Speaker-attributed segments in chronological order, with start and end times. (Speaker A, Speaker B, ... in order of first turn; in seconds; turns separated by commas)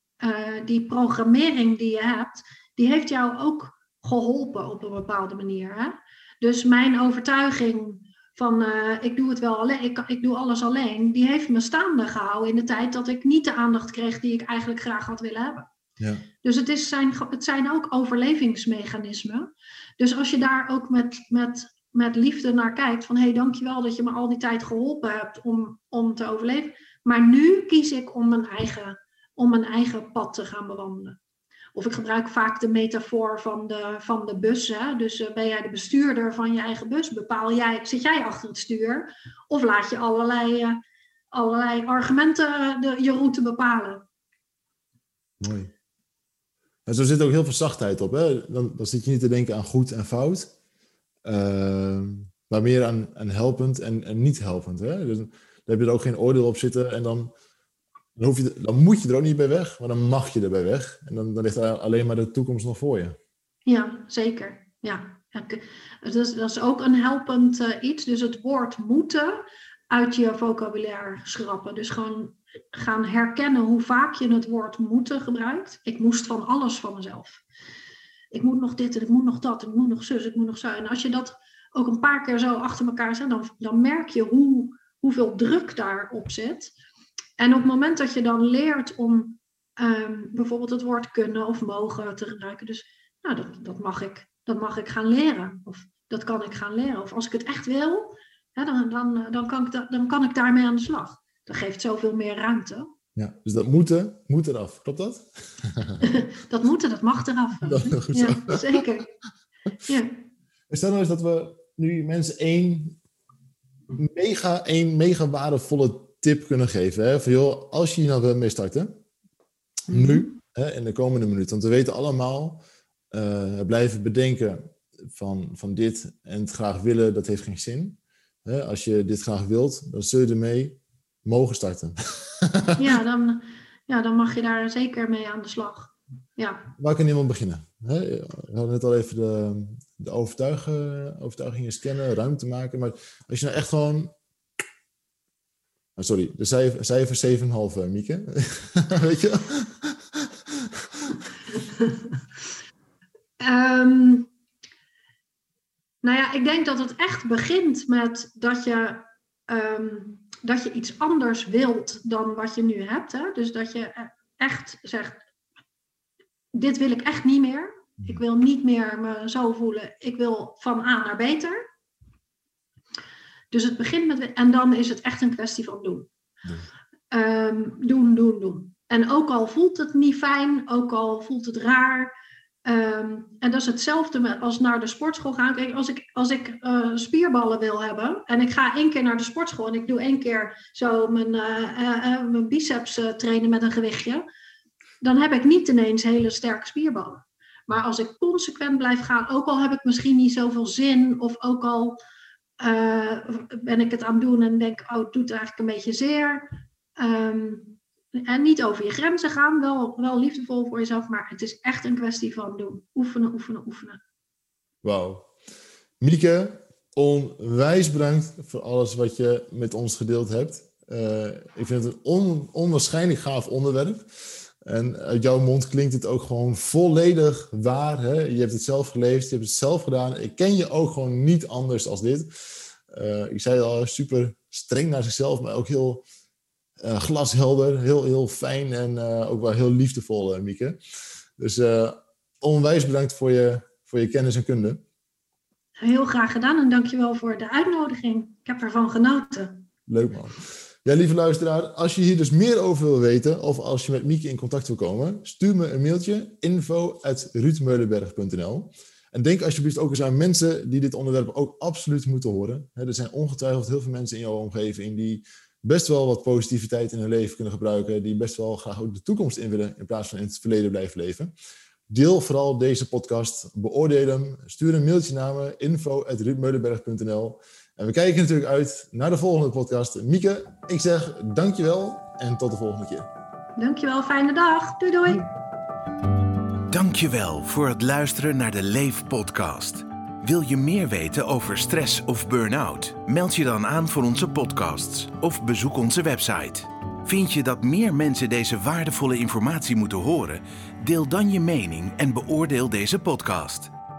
Speaker A: 0.2-15.7, Speaker B: 16.0-16.2, Speaker A: 16.4-31.2, Speaker A: 31.8-40.8, Speaker A: 41.3-44.0, Speaker B: 45.4-45.7, Speaker B: 46.9-50.5, Speaker B: 51.2-57.3, Speaker B: 58.2-63.2, Speaker A: 63.7-77.4, Speaker A: 78.3-86.7, Speaker A: 87.4-102.9, Speaker B: 103.2-106.0, Speaker A: 106.0-109.1, Speaker B: 107.6-108.8, Speaker A: 109.8-110.1, Speaker B: 110.7-113.0, Speaker B: 113.9-119.0, Speaker A: 119.9-120.3, Speaker B: 119.9-132.8, Speaker A: 132.8-136.7, Speaker B: 136.8-144.1, Speaker B: 146.0-151.2, Speaker A: 153.4-154.3, Speaker A: 156.0-165.2, Speaker A: 166.5-171.7, Speaker A: 173.5-176.1, Speaker A: 177.1-182.1, Speaker A: 182.7-194.2, Speaker A: 195.0-202.0, Speaker A: 202.6-214.0, Speaker B: 214.8-215.3, Speaker B: 216.0-236.0, Speaker B: 236.8-240.8, Speaker B: 241.4-244.8, Speaker A: 245.8-249.7, Speaker B: 249.9-271.3, Speaker B: 271.9-283.1, Speaker A: 283.6-285.3, Speaker C: 286.7-303.7